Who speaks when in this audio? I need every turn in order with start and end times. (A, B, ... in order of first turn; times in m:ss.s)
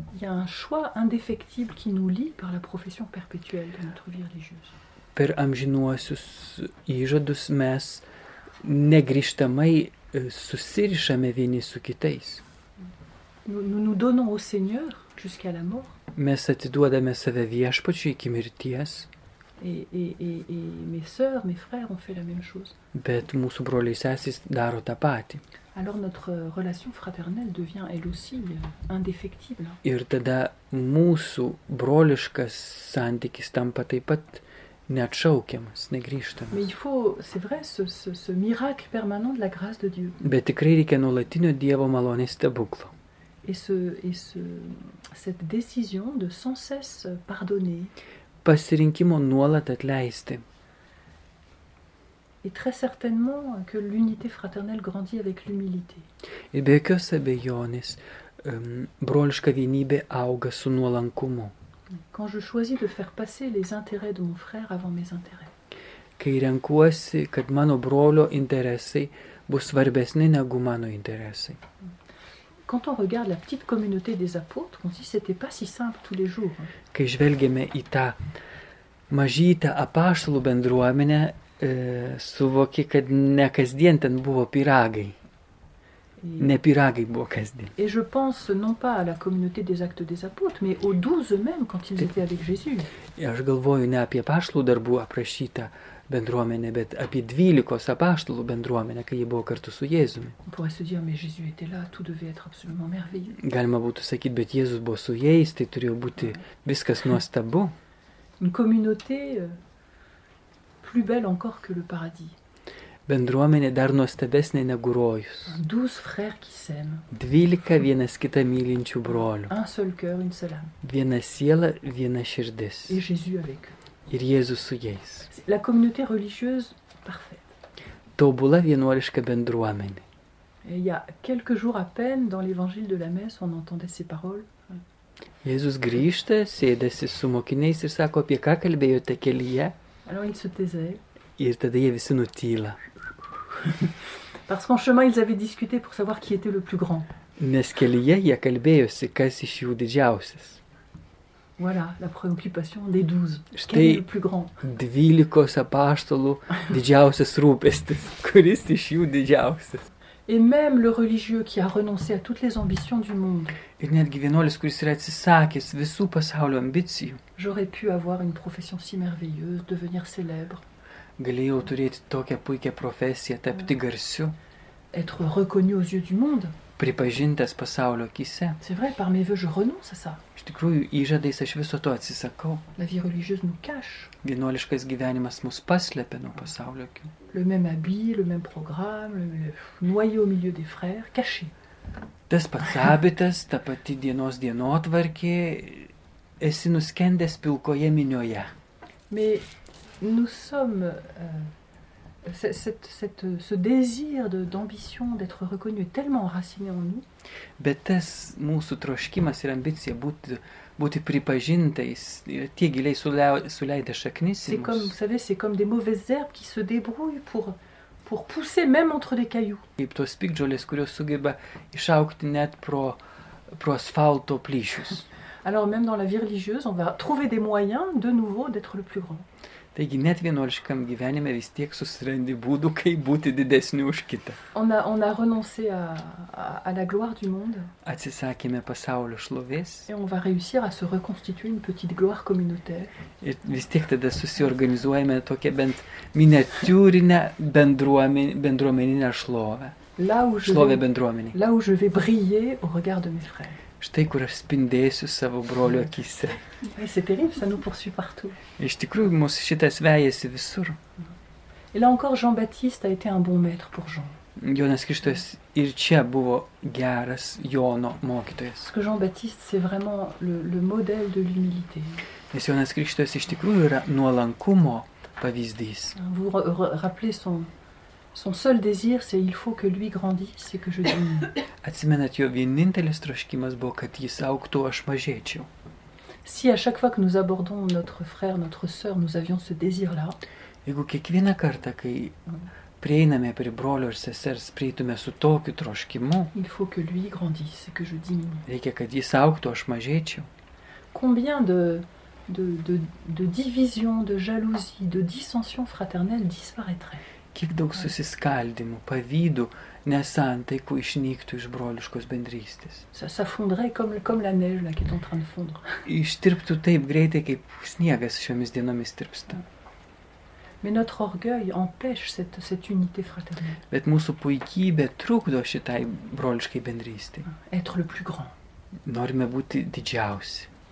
0:00.1-0:04.7 A
0:05.2-0:08.0 B
0:08.6-0:12.4 B
0:13.4-0:16.0 A
0:16.2-0:19.1 B
0:19.6-0:22.8 A
0:22.9-0:25.4 B
0:25.8-0:29.8 A
0:29.8-0:36.6 B
0:36.5-0:40.2 A
0:40.2-0:42.9 B
0:43.4-0:47.9 A
0:48.4-0:50.4 B
0:52.4-0:56.1 A
0:56.5-1:01.5 B
1:02.1-1:05.5 A
1:06.2-1:11.6 B
1:12.7-1:16.7 A
1:16.9-1:18.2 B
1:19.1-1:25.2 B
1:26.2-1:26.5 A
1:26.4-1:27.7 B
1:27.8-1:32.9 A
1:33.2-1:40.4 B
1:40.5-1:43.3 A
1:43.3-1:47.7 B
1:48.4-1:49.6 A
1:50.8-1:52.4 A
1:53.1-1:55.6 B
1:55.5-1:57.1 A
1:57.1-1:59.5 B
1:59.5-2:00.7 A
2:00.8-2:03.0 B
2:02.9-2:03.8 A
2:04.1-2:05.3 B
2:05.3-2:07.5 A
2:08.2-2:10.0 B
2:10.6-2:14.6 A
2:15.4-2:19.8 B
2:20.1-2:21.0 A
2:21.4-2:22.8 B
2:24.5-2:27.1 A
2:27.4-2:30.6 B
2:31.6-2:34.5 A
2:33.5-2:34.0 B
2:34.6-2:39.9 B
2:40.3-2:43.6 A
2:43.8-2:47.2 B
2:47.4-2:50.6 A
2:51.2-2:54.4 B
2:54.9-2:56.6 A
2:56.8-2:58.6 B
2:58.6-3:00.2 A
3:00.4-3:02.6 B
3:02.8-3:04.1 A
3:04.2-3:07.1 B
3:07.3-3:11.5 A
3:12.3-3:18.5 B
3:19.1-3:19.4 A
3:20.0-3:21.5 A
3:22.2-3:27.0 A
3:27.6-3:34.9 B
3:34.4-3:39.6 A
3:39.8-3:43.0 B
3:43.6-3:45.1 B
3:45.4-3:49.3 A
3:49.8-3:54.4 B
3:54.5-3:57.7 A
3:57.8-3:59.9 B
3:59.9-4:02.9 A
4:03.2-4:09.8 B
4:10.0-4:13.6 A
4:10.4-4:11.4 B
4:13.8-4:16.4 B
4:16.6-4:18.4 A
4:18.6-4:20.8 B
4:21.7-4:24.2 A
4:24.4-4:28.7 B
4:28.7-4:32.0 A
4:32.3-4:36.0 B
4:36.0-4:37.5 A
4:38.1-4:41.4 A
4:41.6-4:45.5 B
4:46.2-4:50.2 A
4:50.6-4:52.2 B
4:52.8-4:56.3 B
4:56.3-4:58.4 A
4:58.5-5:00.3 B
5:00.9-5:07.0 A
5:07.3-5:12.9 B
5:12.9-5:15.8 A
5:15.9-5:19.4 B
5:20.6-5:23.6 A
5:23.7-5:27.3 B
5:27.3-5:28.3 A
5:28.9-5:30.5 B